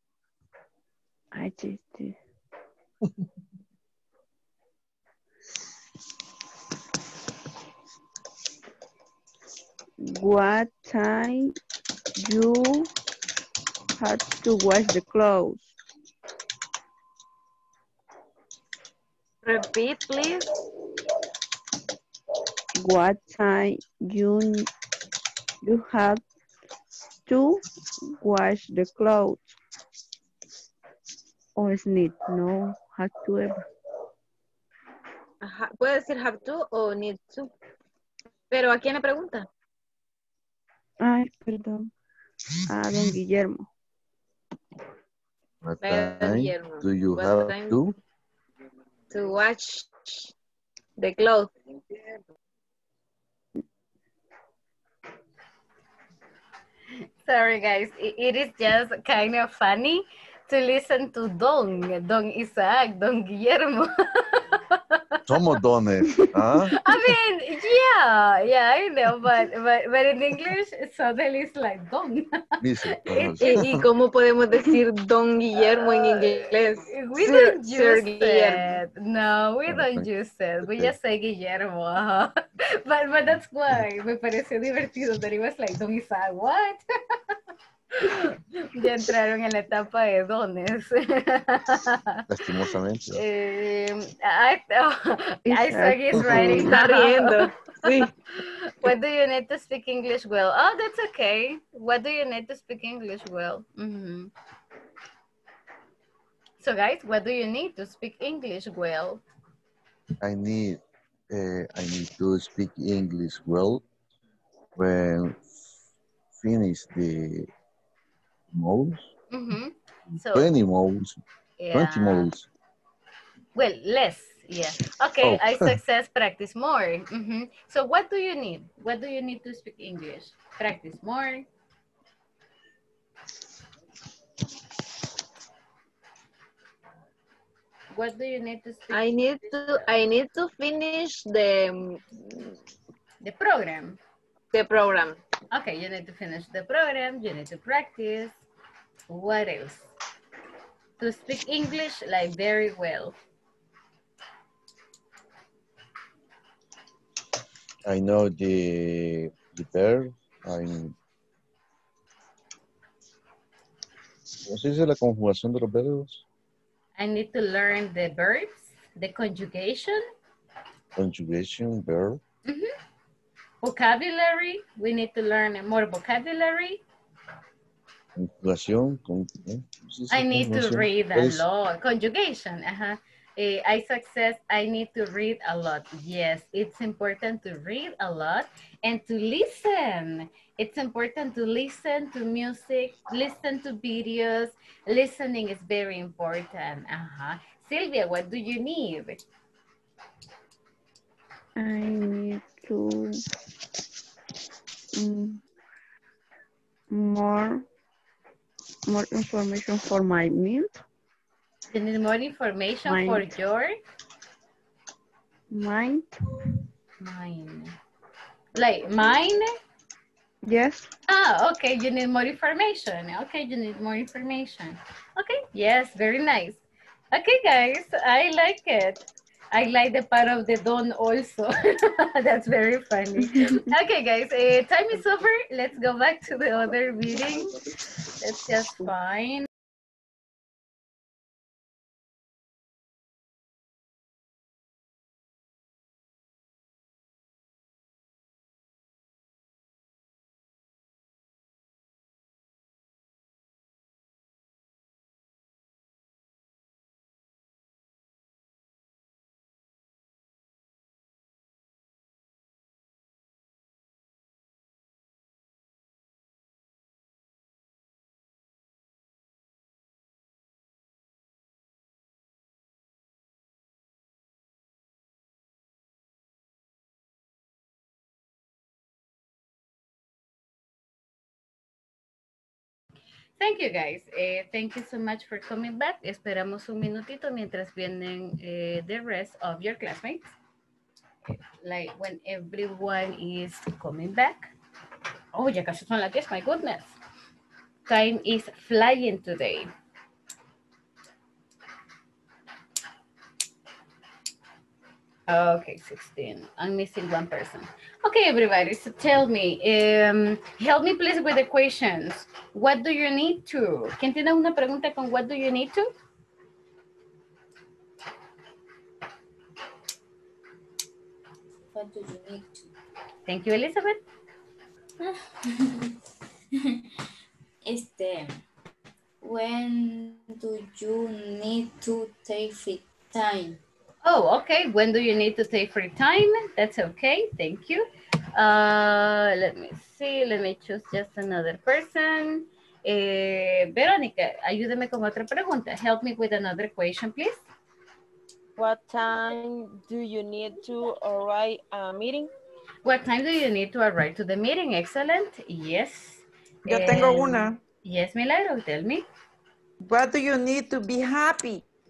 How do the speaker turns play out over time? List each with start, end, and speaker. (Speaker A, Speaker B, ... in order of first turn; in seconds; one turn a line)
Speaker A: 1.3-2.2
Speaker A: 10.0-11.6
Speaker A: 12.2-12.9
Speaker A: 14.0-15.7
Speaker B: 19.4-20.5
Speaker A: 22.8-24.7
Speaker A: 25.6-26.2
Speaker A: 27.3-27.6
Speaker A: 28.2-29.6
Speaker A: 31.6-33.6
Speaker B: 35.4-37.5
Speaker B: 38.5-39.5
Speaker A: 41.0-41.9
Speaker A: 42.7-43.7
Speaker C: 45.6-48.0
Speaker B: 45.8-47.8
Speaker B: 49.1-50.3
Speaker B: 51.0-51.5
Speaker D: 57.2-65.2
Speaker C: 65.3-66.7
Speaker A: 66.1-67.0
Speaker D: 66.7-72.4
Speaker C: 72.6-73.9
Speaker D: 73.1-73.7
Speaker B: 73.4-78.8
Speaker D: 75.6-86.8
Speaker C: 79.7-80.1
Speaker C: 80.6-80.9
Speaker D: 88.0-92.2
Speaker C: 92.3-93.2
Speaker D: 93.1-97.5
Speaker A: 95.5-96.8
Speaker C: 96.2-96.5
Speaker E: 96.3-98.1
Speaker B: 96.3-96.8
Speaker D: 98.3-104.3
Speaker D: 106.6-109.2
Speaker C: 110.2-110.8
Speaker C: 111.3-113.8
Speaker C: 114.8-115.6
Speaker C: 116.3-117.5
Speaker C: 118.5-119.1
Speaker D: 119.3-120.5
Speaker C: 120.3-121.2
Speaker D: 121.6-122.3
Speaker C: 121.7-122.5
Speaker D: 123.5-131.4
Speaker C: 125.2-125.8
Speaker D: 137.9-139.9
Speaker B: 138.9-142.6
Speaker D: 143.2-144.0
Speaker B: 144.5-145.2
Speaker D: 145.5-148.4
Speaker D: 149.1-149.9
Speaker D: 151.0-153.2
Speaker C: 157.9-160.9
Speaker C: 164.4-166.2
Speaker D: 166.9-170.0
Speaker C: 170.9-172.2
Speaker D: 173.6-176.8
Speaker C: 178.2-181.4
Speaker D: 180.1-199.2
Speaker A: 201.6-203.2
Speaker A: 204.9-205.4
Speaker A: 206.9-207.6
Speaker A: 208.9-210.8
Speaker D: 211.7-213.7
Speaker A: 212.9-213.3
Speaker A: 215.5-216.2
Speaker D: 217.0-217.8
Speaker D: 218.6-219.5
Speaker A: 220.4-220.9
Speaker D: 221.1-237.6
Speaker A: 233.3-233.6
Speaker D: 238.2-239.5
Speaker D: 283.4-290.3
Speaker D: 291.3-294.5
Speaker D: 295.4-296.9
Speaker D: 297.9-299.7
Speaker D: 305.3-315.9
Speaker F: 321.7-322.7
Speaker D: 323.3-324.0
Speaker F: 325.0-325.9
Speaker F: 327.6-328.4
Speaker F: 329.2-333.6
Speaker D: 334.0-347.4
Speaker E: 348.6-352.3
Speaker D: 352.9-359.1
Speaker G: 356.7-357.6
Speaker G: 359.8-361.6